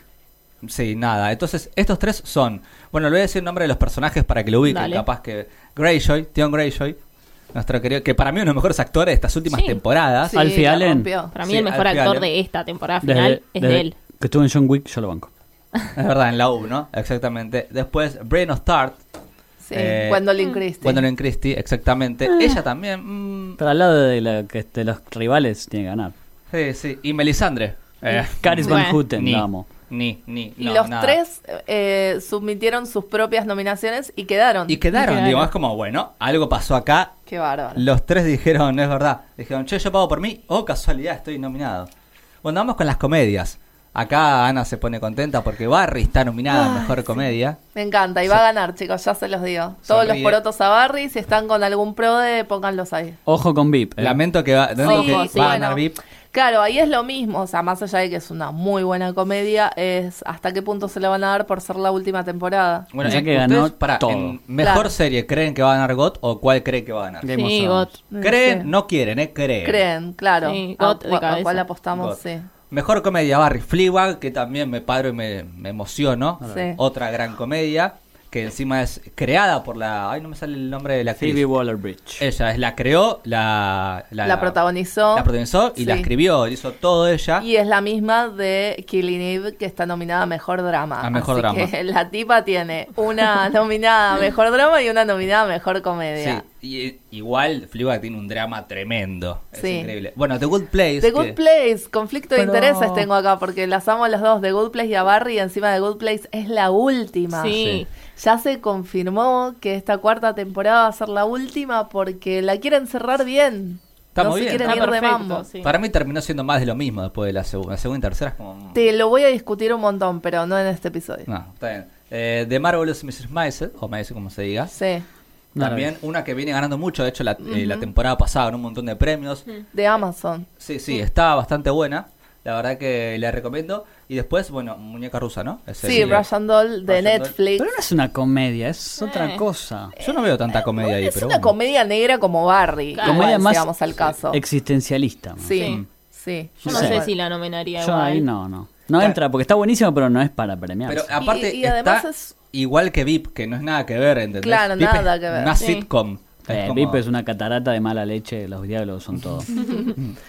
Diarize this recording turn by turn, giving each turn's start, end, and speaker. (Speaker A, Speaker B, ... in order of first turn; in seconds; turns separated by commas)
Speaker A: 0.6-7.0, Speaker B: 4.7-5.0, Speaker A: 7.5-10.6, Speaker B: 9.5-9.8, Speaker C: 10.2-11.3, Speaker D: 10.3-11.1, Speaker B: 11.3-13.9, Speaker A: 11.4-12.3, Speaker D: 13.0-15.3, Speaker A: 15.9-19.0, Speaker C: 19.6-21.1, Speaker A: 19.7-20.3, Speaker A: 20.8-23.6, Speaker D: 23.6-26.1, Speaker A: 26.5-31.2, Speaker D: 28.4-29.7, Speaker B: 28.6-29.0, Speaker C: 30.6-34.8, Speaker A: 34.7-37.2, Speaker B: 34.9-35.5, Speaker C: 37.3-37.9, Speaker A: 37.8-41.9, Speaker A: 42.4-47.6, Speaker C: 46.5-47.0, Speaker C: 47.7-53.2, Speaker A: 49.9-50.4, Speaker D: 53.3-54.2, Speaker A: 54.0-56.0, Speaker C: 54.8-62.9, Speaker B: 54.8-55.7, Speaker A: 62.9-67.3, Speaker D: 63.0-64.4, Speaker C: 64.6-64.9, Speaker D: 67.2-68.0, Speaker B: 67.3-67.9, Speaker C: 68.1-68.7, Speaker A: 68.2-69.8, Speaker C: 69.6-72.5, Speaker B: 70.4-71.6, Speaker A: 71.9-72.2, Speaker A: 72.7-81.5, Speaker C: 76.5-76.8, Speaker D: 81.2-82.2, Speaker A: 82.2-84.6, Speaker C: 84.2-86.1, Speaker A: 85.1-87.5, Speaker C: 87.4-96.4, Speaker A: 91.0-91.7, Speaker A: 96.2-101.4, Speaker C: 99.6-99.9, Speaker C: 101.0-107.6, Speaker D: 102.4-103.1, Speaker B: 107.3-107.9, Speaker A: 107.5-107.8, Speaker C: 108.1-115.5, Speaker A: 114.2-114.9, Speaker B: 114.6-115.7, Speaker A: 115.6-118.8, Speaker C: 118.7-121.3, Speaker A: 121.3-124.7, Speaker C: 124.7-125.1, Speaker D: 125.5-125.9, Speaker A: 125.6-129.5, Speaker C: 127.4-127.9, Speaker C: 129.7-130.5, Speaker A: 130.6-136.3, Speaker C: 135.8-137.8, Speaker A: 136.9-137.3, Speaker D: 137.6-139.9, Speaker B: 139.0-139.4, Speaker C: 140.0-144.4, Speaker A: 140.0-141.5, Speaker B: 142.9-143.3, Speaker D: 143.0-145.5, Speaker C: 145.4-147.1, Speaker B: 145.6-145.8, Speaker A: 145.6-145.9, Speaker B: 146.7-148.2, Speaker D: 146.7-147.1, Speaker D: 147.8-151.1, Speaker A: 150.9-157.0, Speaker C: 151.2-152.3, Speaker C: 154.4-155.6, Speaker B: 155.6-155.9, Speaker D: 156.5-159.5, Speaker C: 159.5-160.0